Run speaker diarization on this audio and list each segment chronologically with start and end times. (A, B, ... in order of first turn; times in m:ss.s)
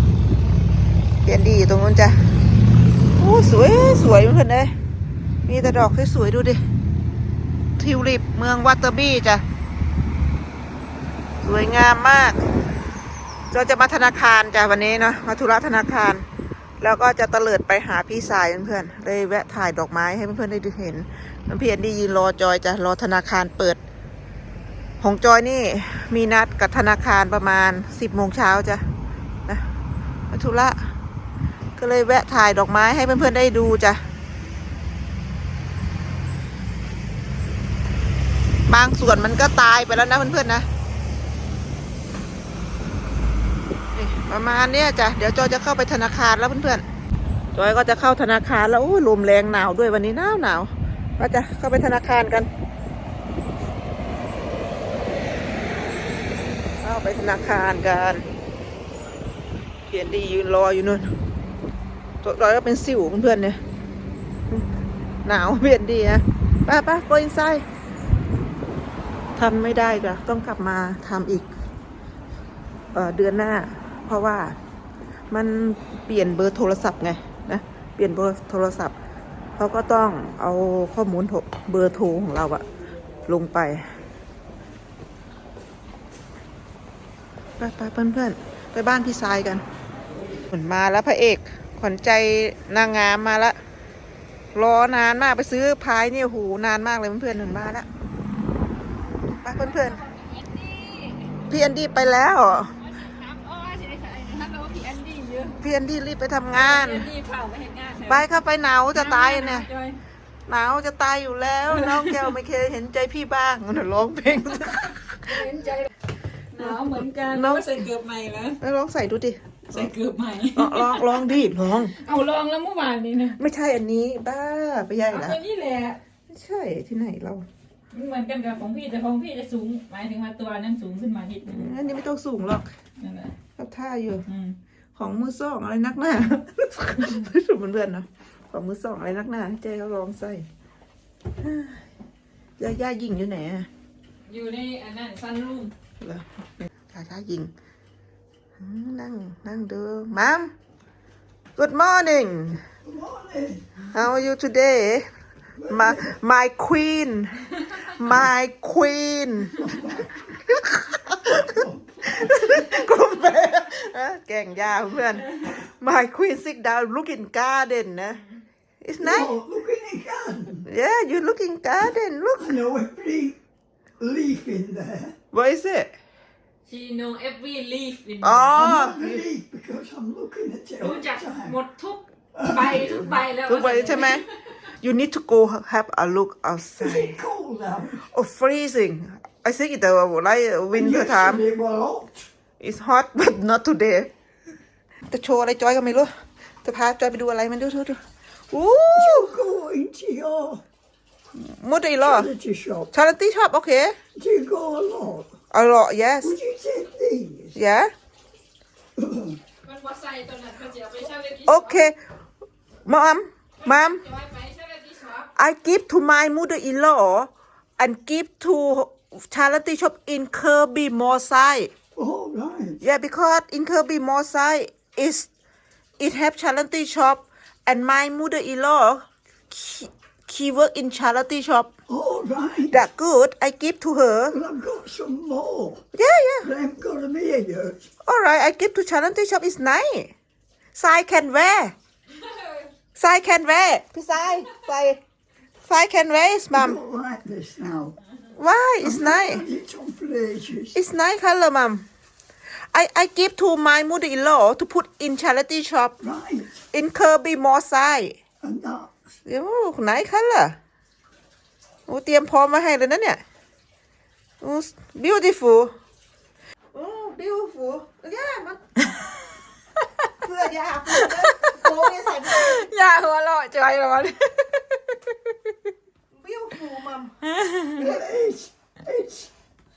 0:01.2-0:02.2 A
0:03.2-0:04.7 A
0:05.5-0:06.6 A
0:07.8-0:09.4 A
0:11.4-0:12.4 A
0:13.5-0:16.2 A
0:16.8-0:23.8 A
0:25.0-0:28.8 A
0:30.3-0:30.9 A
0:31.8-0:34.0 A
0:38.7-0:40.7 A
0:43.9-0:46.8 A
0:47.6-0:52.5 A
0:56.8-0:58.3 A
0:59.9-1:01.1 A
1:02.2-1:03.6 A
1:05.2-1:07.6 A
1:09.4-1:11.5 A
1:12.9-1:14.6 A
1:15.3-1:19.0 A
1:19.6-1:22.6 A
1:23.3-1:23.9 A
1:27.6-1:29.6 A
1:30.5-1:33.6 A
1:34.6-1:37.9 A
1:39.3-1:40.0 A
1:39.6-1:41.4 B
1:41.5-1:42.8 A
1:42.8-1:45.6 B
1:45.6-1:47.1 A
1:46.5-1:48.3 B
1:48.1-1:49.7 A
1:48.9-1:50.0 B
1:50.5-1:55.4 A
1:51.7-1:52.3 B
1:55.2-1:55.9 B
1:56.5-1:58.6 B
1:57.3-1:57.7 A
1:58.6-1:59.9 A
1:59.7-2:01.3 B
2:00.5-2:01.9 A
2:01.9-2:03.4 B
2:03.4-2:05.4 A
2:05.1-2:06.0 B
2:06.3-2:07.5 A
2:07.9-2:11.8 B
2:11.5-2:12.7 A
2:13.0-2:13.3 B
2:13.6-2:14.3 A
2:14.3-2:14.6 B
2:15.0-2:20.5 A
2:17.0-2:17.3 B
2:21.4-2:21.8 A
2:22.6-2:23.7 A
2:24.3-2:25.7 B
2:26.0-2:26.3 A
2:26.9-2:27.5 A
2:28.6-2:30.5 A
2:31.6-2:32.6 A
2:32.8-2:33.6 C
2:33.9-2:35.1 A
2:35.6-2:36.2 C
2:35.7-2:39.6 A
2:39.5-2:40.2 C
2:40.4-2:41.5 A
2:41.2-2:42.9 C
2:42.0-2:48.2 A
2:48.8-2:49.4 A
2:49.0-2:50.7 C
2:50.7-2:52.6 A
2:52.4-2:53.4 C
2:54.0-2:55.2 C
2:55.3-2:55.9 A
2:56.7-2:58.9 B
2:58.2-2:59.2 A
2:58.5-3:01.6 C
3:00.8-3:04.3 B
3:02.3-3:03.0 C
3:02.6-3:07.2 A
3:06.8-3:08.1 C
3:08.1-3:11.4 A
3:10.7-3:12.3 C
3:12.6-3:14.1 A
3:15.1-3:16.1 A
3:16.6-3:19.4 A
3:18.9-3:20.6 C
3:21.3-3:22.3 A
3:22.0-3:22.9 C
3:22.9-3:24.0 A
3:24.2-3:25.3 C
3:25.5-3:26.4 A
3:26.2-3:27.6 C
3:27.6-3:27.9 A
3:29.0-3:29.4 C
3:29.6-3:31.8 B
3:31.4-3:32.0 A
3:32.9-3:34.0 A
3:33.6-3:35.3 B
3:35.4-3:41.7 A
3:42.0-3:42.8 C
3:42.8-3:45.3 A
3:46.0-3:51.7 A
3:51.9-3:52.8 C
3:52.7-3:54.4 A
3:54.3-3:55.8 C
3:55.9-3:56.5 A
3:56.4-3:57.9 C
3:58.0-4:00.1 A
4:00.8-4:01.7 A
4:02.2-4:02.6 B
4:03.0-4:05.0 A
4:05.7-4:06.8 A
4:06.5-4:08.0 C
4:08.4-4:09.5 A
4:08.8-4:10.8 C
4:10.7-4:11.9 A
4:12.7-4:16.0 A
4:16.0-4:16.6 C
4:16.7-4:18.2 A
4:18.4-4:19.0 C
4:19.3-4:20.6 A
4:21.9-4:23.2 A
4:24.4-4:25.8 A
4:26.7-4:28.9 A
4:29.8-4:30.1 B
4:30.2-4:32.7 A
4:30.9-4:31.7 B
4:32.2-4:35.5 B
4:36.1-4:37.2 A
4:37.2-4:37.8 B
4:37.8-4:39.3 C
4:37.8-4:38.0 A